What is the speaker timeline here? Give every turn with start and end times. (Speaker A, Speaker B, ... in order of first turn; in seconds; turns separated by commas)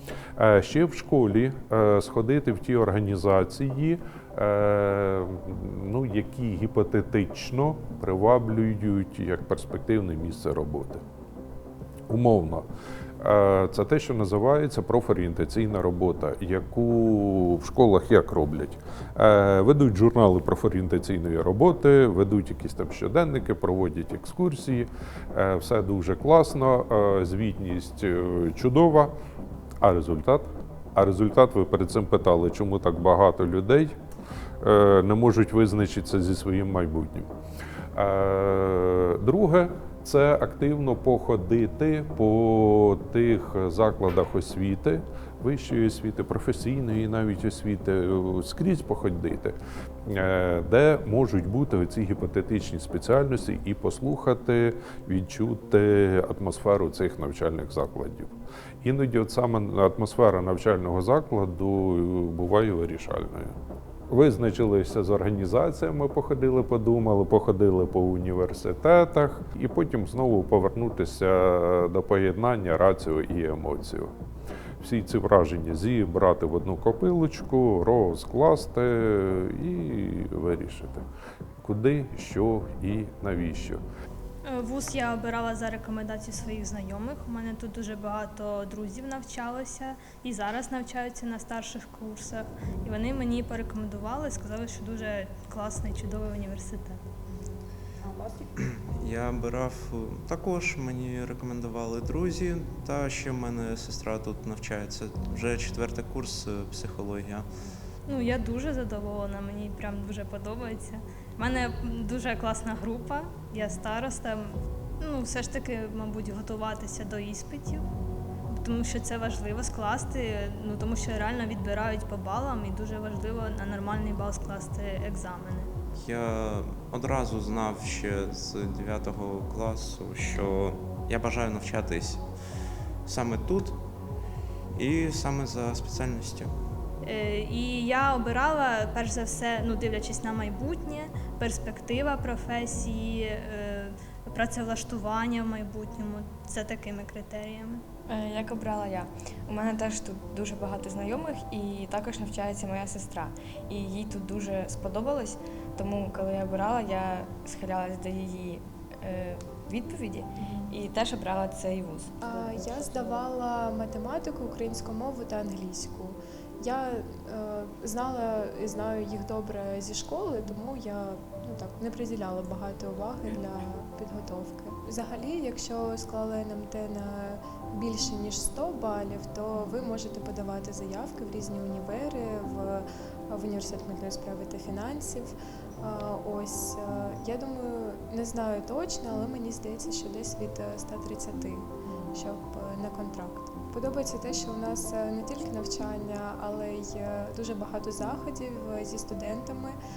Speaker A: 0.4-11.0, Speaker A: 12.1-12.7, Speaker A: 13.2-29.1, Speaker A: 29.8-34.0, Speaker A: 34.6-37.3, Speaker A: 38.0-63.6, Speaker A: 64.1-74.1, Speaker A: 74.8-81.0, Speaker A: 81.6-83.8, Speaker B: 84.4-97.0, Speaker C: 99.0-107.5, Speaker B: 108.1-117.8, Speaker B: 118.5-125.7, Speaker C: 126.0-132.2, Speaker C: 133.1-133.8, Speaker C: 134.8-136.5, Speaker B: 137.0-147.8, Speaker D: 148.1-163.1, Speaker E: 162.2-199.8